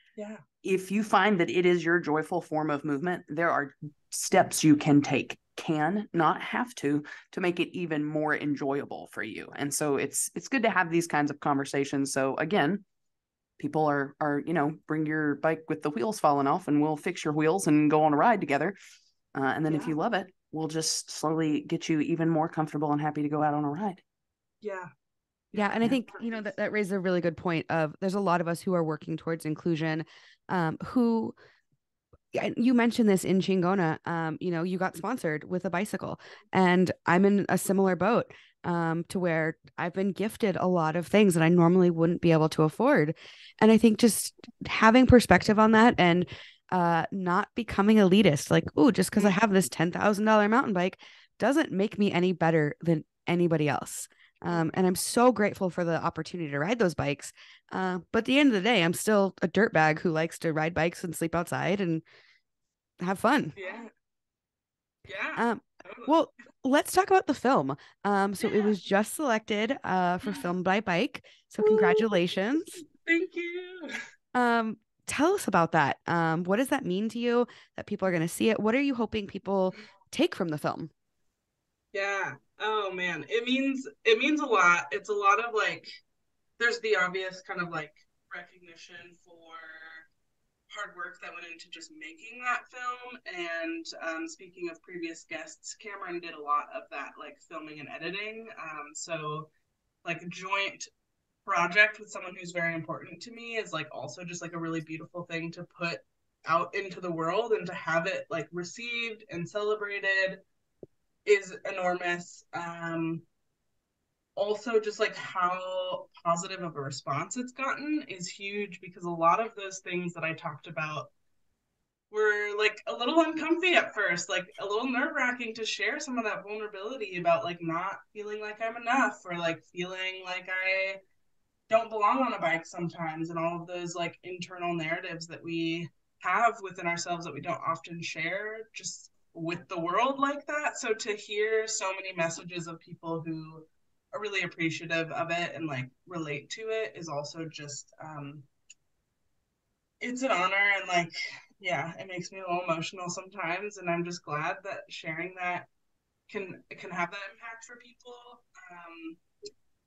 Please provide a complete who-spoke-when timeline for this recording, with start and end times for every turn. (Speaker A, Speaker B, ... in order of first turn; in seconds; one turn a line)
Speaker A: 0.2-0.4
Speaker B: 0.6-12.8
Speaker B: 13.6-18.8
Speaker B: 19.3-24.0
Speaker A: 19.7-19.9
Speaker A: 24.6-24.9
Speaker A: 25.5-26.5
Speaker C: 25.5-31.3
Speaker C: 32.3-62.0
Speaker A: 49.1-49.4
Speaker A: 54.5-54.8
Speaker C: 63.0-63.5
Speaker A: 63.5-63.9
Speaker A: 65.1-66.2
Speaker C: 65.4-72.8
Speaker A: 68.4-68.7
Speaker A: 70.2-70.5
Speaker A: 71.6-72.1
Speaker A: 72.8-73.9
Speaker C: 74.3-80.9
Speaker A: 81.9-86.0
Speaker A: 86.6-90.1
Speaker A: 90.7-99.5
Speaker A: 100.0-100.9
Speaker A: 101.4-110.4
Speaker A: 111.2-113.2
Speaker A: 114.3-121.1
Speaker A: 122.1-131.0
Speaker A: 131.7-148.4
Speaker A: 150.0-155.7
Speaker A: 156.3-159.2